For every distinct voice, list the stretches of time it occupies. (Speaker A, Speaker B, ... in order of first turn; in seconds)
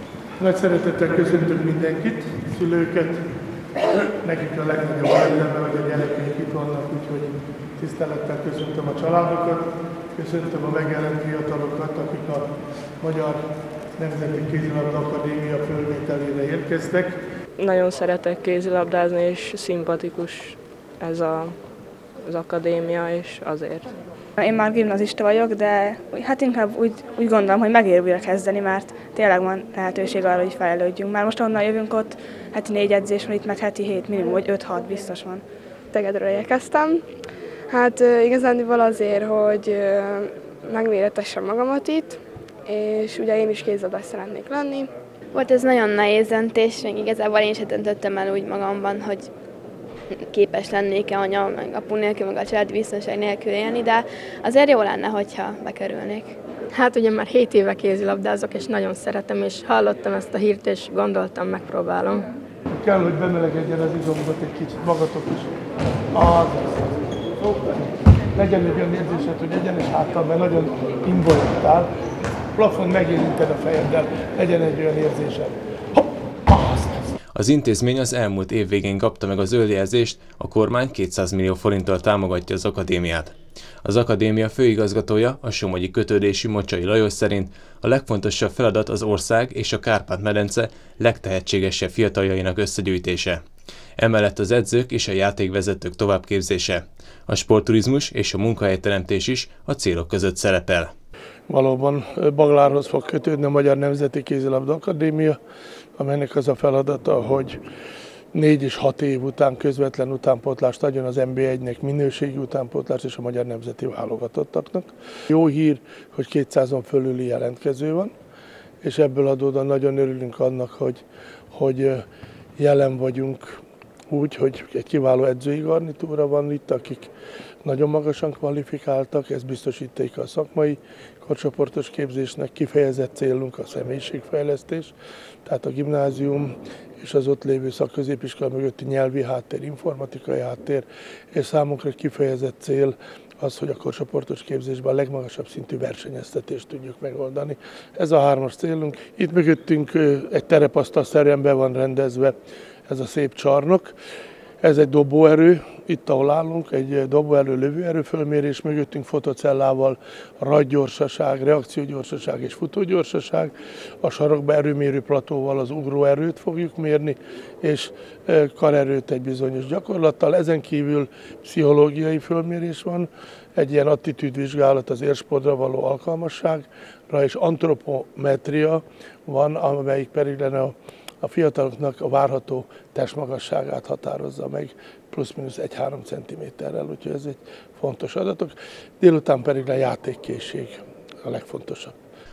Speaker A: 0.4-3.3, 4.2-17.2, 62.7-65.5, 66.1-71.9, 72.5-77.1, 101.5-105.4, 106.0-107.6, 108.3-118.1, 118.8-122.0, 122.6-127.1, 127.6-134.9, 135.4-152.3, 152.9-153.9, 154.6-191.9
Speaker B: 17.6-24.0
Speaker C: 24.4-35.4
Speaker D: 35.9-37.0, 37.7-44.9
Speaker E: 45.3-49.3, 50.3-56.4
Speaker F: 56.7-62.3
Speaker G: 77.3-93.4, 94.0-100.9